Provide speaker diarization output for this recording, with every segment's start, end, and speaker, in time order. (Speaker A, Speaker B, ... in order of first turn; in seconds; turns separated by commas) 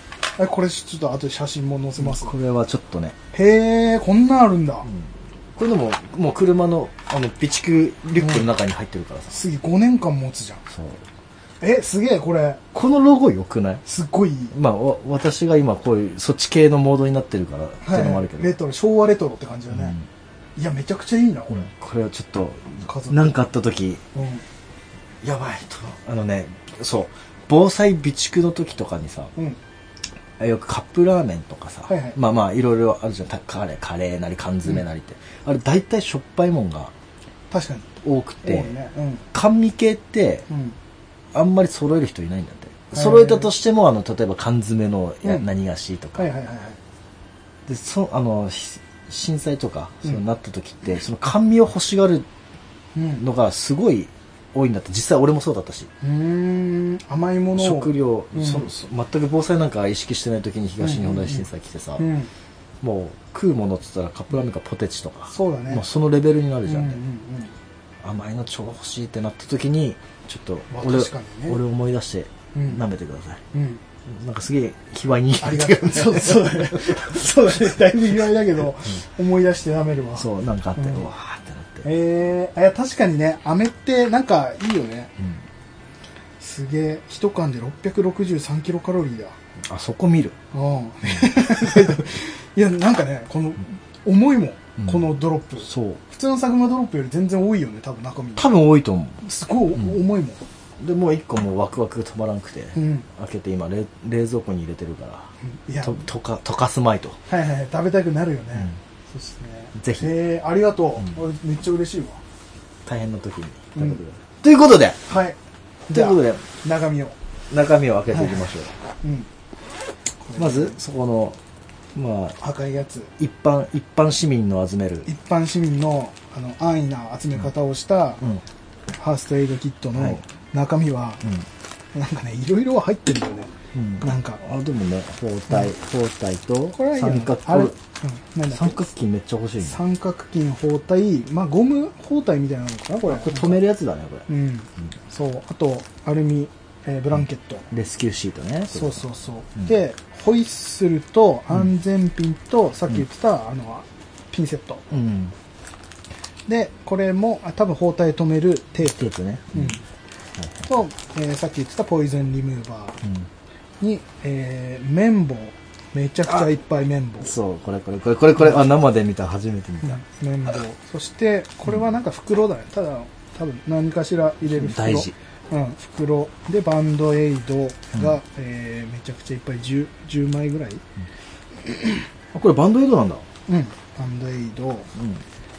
Speaker A: 0.4-2.4, Speaker B: 2.0-3.2, Speaker A: 3.3-4.9, Speaker B: 4.8-9.4, Speaker A: 8.2-8.5, Speaker A: 9.3-10.6, Speaker B: 10.7-11.0, Speaker A: 11.6-12.6, Speaker B: 12.7-13.8, Speaker A: 13.8-14.6, Speaker B: 14.5-18.6, Speaker A: 17.8-20.0, Speaker B: 19.7-20.1, Speaker A: 20.6-21.7, Speaker B: 21.5-24.0, Speaker A: 22.9-23.4, Speaker A: 24.1-24.4, Speaker B: 25.2-29.3, Speaker B: 30.4-36.9, Speaker A: 31.9-32.2, Speaker A: 37.5-39.2, Speaker B: 38.0-38.7, Speaker B: 39.3-40.5, Speaker A: 40.5-40.8, Speaker B: 41.3-46.3, Speaker A: 42.9-43.5, Speaker A: 46.2-46.8, Speaker B: 47.7-52.3, Speaker A: 53.0-53.2, Speaker B: 53.2-55.9, Speaker A: 56.0-58.7, Speaker B: 57.5-62.1, Speaker A: 60.8-61.5, Speaker A: 62.0-62.3, Speaker B: 62.8-67.0, Speaker A: 65.3-65.8, Speaker A: 66.7-67.5, Speaker B: 68.0-73.4, Speaker A: 70.7-71.6, Speaker A: 72.5-72.8, Speaker A: 73.5-73.8, Speaker B: 74.1-77.2, Speaker A: 75.4-81.1, Speaker B: 80.2-81.9, Speaker A: 81.8-85.1, Speaker A: 86.4-89.3, Speaker B: 89.6-90.4, Speaker A: 90.5-98.5, Speaker B: 91.2-92.0, Speaker B: 95.6-96.0, Speaker B: 98.4-99.2, Speaker A: 99.2-100.4, Speaker B: 100.8-105.3, Speaker A: 102.8-103.1, Speaker A: 105.4-106.0, Speaker B: 105.8-107.2, Speaker A: 107.3-112.2, Speaker B: 109.8-110.1, Speaker B: 112.8-115.0, Speaker A: 115.1-115.4, Speaker A: 115.9-117.2, Speaker B: 115.9-116.5, Speaker B: 117.5-118.7, Speaker A: 118.1-118.5, Speaker A: 119.0-119.3, Speaker A: 120.2-120.8, Speaker B: 120.4-121.4, Speaker B: 122.0-122.4, Speaker A: 122.4-123.1, Speaker B: 123.2-125.1, Speaker A: 125.1-128.3, Speaker A: 129.0-131.2, Speaker A: 131.9-134.4, Speaker B: 133.7-137.8, Speaker A: 136.7-138.8, Speaker B: 138.5-139.8, Speaker A: 139.6-143.6, Speaker B: 143.1-144.3, Speaker A: 144.3-147.7, Speaker B: 147.7-149.0, Speaker A: 148.7-154.8, Speaker B: 154.9-155.3, Speaker A: 156.5-159.8, Speaker B: 158.9-159.8, Speaker B: 160.4-160.6, Speaker A: 160.7-163.0, Speaker B: 163.0-163.3, Speaker A: 163.8-167.3, Speaker B: 167.2-170.0, Speaker A: 169.8-180.8, Speaker B: 174.4-175.2, Speaker A: 181.7-182.0, Speaker B: 182.3-183.2, Speaker A: 183.5-184.9, Speaker B: 185.0-185.2